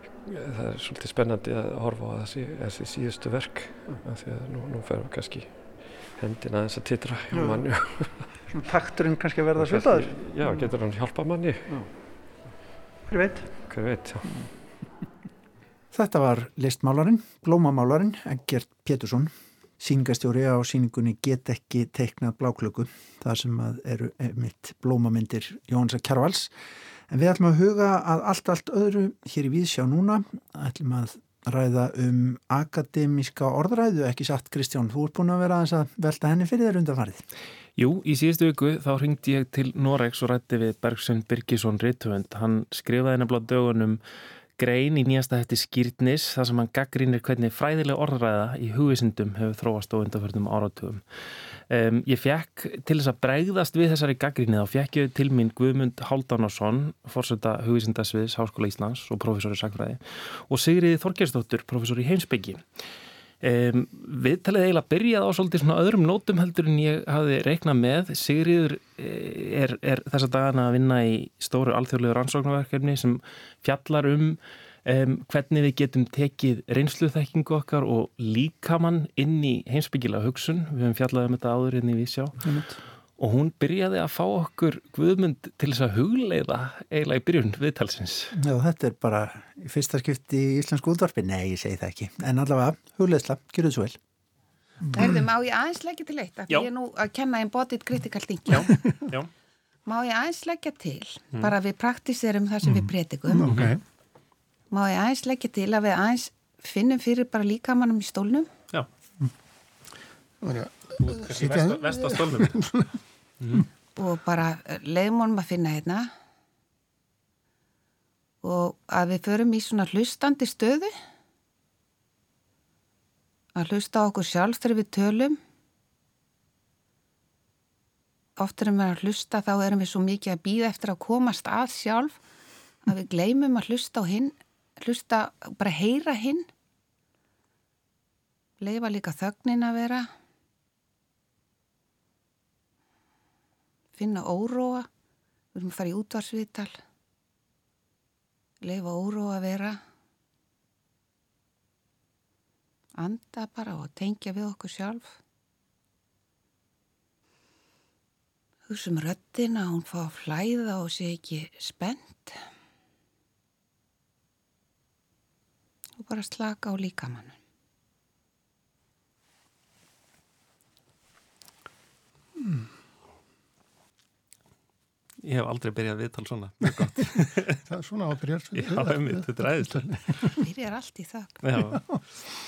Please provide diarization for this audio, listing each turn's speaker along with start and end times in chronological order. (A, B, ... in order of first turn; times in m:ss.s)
0:00.2-0:08.5 A
0:07.3-0:07.6 B
0:08.2-0:10.7 B
0:09.6-0:11.8 A
0:13.1-0:13.7 B
0:13.7-0:14.4 A
0:14.2-0:14.5 B
0:15.9-0:26.5 B
0:27.1-0:37.2 B
0:37.8-0:44.0 C
0:44.6-0:51.0 C
0:51.7-1:02.6 C
1:03.4-1:22.5 C
1:22.4-1:22.8 B
1:23.2-1:28.3 C
1:28.3-1:34.0 B
1:34.8-1:35.1 D
1:35.0-1:38.7 E
1:38.5-1:39.3 C
1:39.8-1:43.5 E
1:42.6-1:43.8 D
1:43.4-1:43.7 C
1:44.7-1:48.5 E
1:50.4-1:52.9 D
1:51.0-1:52.6 C
1:54.0-1:56.1 E
1:58.4-2:00.9 E
2:03.5-2:05.4 E
2:08.4-2:12.2 E
2:12.8-2:16.5 E
2:18.6-2:20.1 E
2:23.9-2:24.9 E
2:25.5-2:26.8 E
2:28.6-2:29.8 E
2:33.0-2:35.1 E
2:38.7-2:42.4 E
2:46.0-2:47.3 E
2:52.4-2:52.6 D
2:55.2-2:57.6 C
2:57.6-3:00.1 D
2:58.5-3:00.1 C
3:00.4-3:01.4 E
3:01.4-3:02.0 C